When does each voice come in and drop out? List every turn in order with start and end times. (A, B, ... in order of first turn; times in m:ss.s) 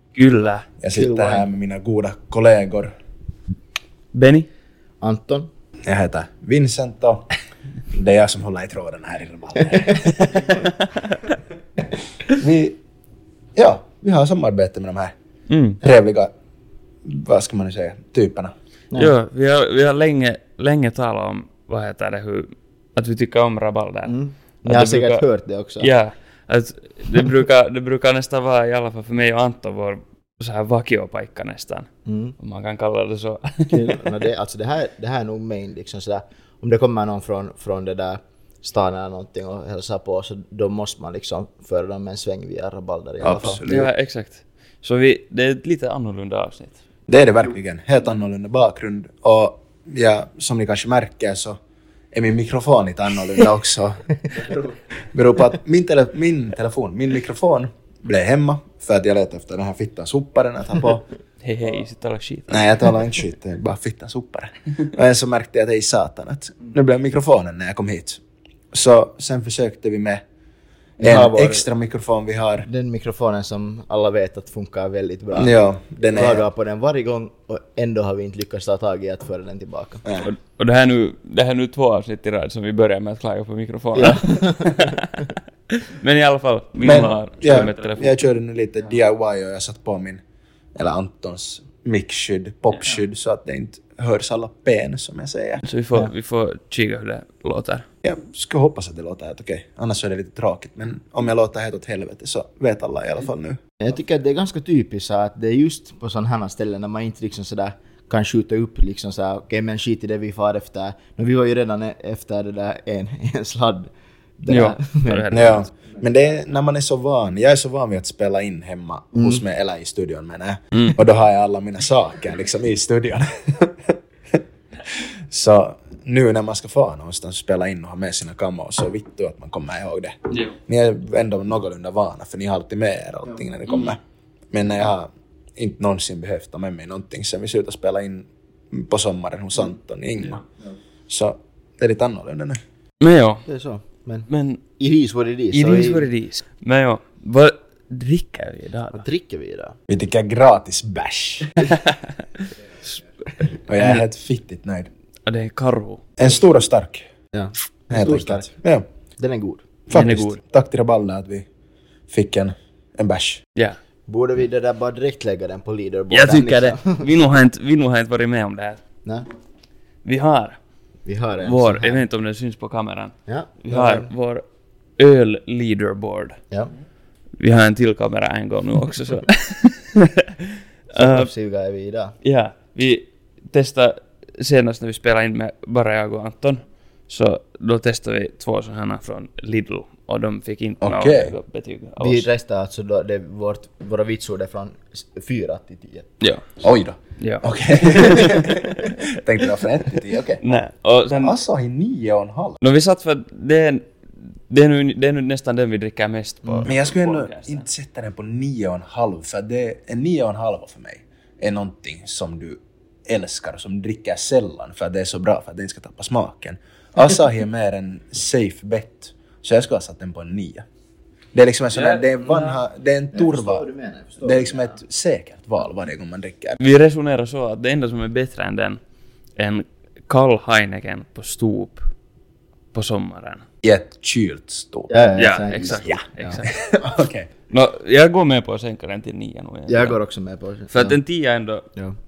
0:00.1-0:00.7 A
0:00.8-0:02.9 B
0:00.9-0:01.5 C
0:04.1-0:04.5 A
0:05.0-0:05.5 C
0:05.9-0:07.3 B
0:07.9-0:10.7 B
0:12.2-0:12.8 B
0:13.6-0:15.1 B
0:15.5-0:15.8 A
0:15.8-0:16.3 B
0:17.0-0:18.5 B
0:19.0-0:25.2 A
0:24.1-0:25.9 C
0:25.8-0:31.9 A
0:32.1-0:32.4 C
0:32.4-0:34.1 A
0:33.7-0:43.6 C
0:43.2-0:46.8 A
0:43.3-0:43.9 B
0:47.1-0:51.6 B
0:52.1-1:01.1 B
1:01.4-1:02.8 A
1:02.5-1:08.2 B
1:08.7-1:10.2 B
1:11.0-1:11.7 C
1:11.0-1:12.7 B
1:12.6-1:15.5 C
1:15.4-1:16.4 B
1:16.1-1:20.0 C
1:20.2-1:28.2 A
1:24.0-1:25.1 C
1:26.8-1:30.2 B
1:30.8-1:35.6 B
1:35.6-1:37.9 A
1:38.0-1:43.6 B
1:43.8-1:55.6 C
1:54.5-1:55.7 A
1:55.3-2:14.0 B
2:14.5-2:20.4 B
2:21.1-2:22.6 B
2:23.0-2:23.4 A
2:23.5-2:24.3 C
2:24.3-2:24.6 A
2:24.8-2:26.1 C
2:25.5-2:29.0 A
2:28.9-2:29.8 C
2:29.9-2:31.5 B
2:31.6-2:32.5 A
2:33.7-2:34.9 B
2:35.3-2:36.0 A
2:36.2-2:37.1 B
2:37.3-2:38.5 C
2:37.9-2:38.8 B
2:39.2-2:39.6 C
2:39.9-2:41.5 B
2:39.9-2:40.4 A
2:42.1-2:43.4 B
2:44.1-2:47.0 C
2:46.1-2:48.8 A
2:50.0-2:50.6 A
2:51.1-2:52.0 C
2:51.4-2:54.4 A
2:53.3-2:54.1 C
2:55.0-2:56.4 A
2:57.4-3:01.3 A
3:01.0-3:02.1 C
3:02.2-3:12.3 A
3:10.8-3:11.4 B
3:12.0-3:16.1 C
3:16.2-3:16.5 A
3:16.6-3:20.4 B
3:17.2-3:19.2 A
3:20.4-3:21.4 A
3:21.1-3:22.6 B
3:22.6-3:23.9 A
3:24.5-3:27.6 A
3:26.6-3:40.7 B
3:41.3-3:43.6 B
3:41.7-3:42.6 A
3:43.1-3:44.8 C
3:44.2-3:46.6 B
3:46.6-3:48.8 A
3:49.4-3:51.9 A
3:52.7-3:53.5 A
3:53.6-3:55.1 B
3:54.9-3:56.4 C
3:55.2-3:56.6 A
3:55.7-3:57.3 B
3:57.5-4:00.0 A
3:59.7-4:01.0 C
4:00.7-4:01.7 A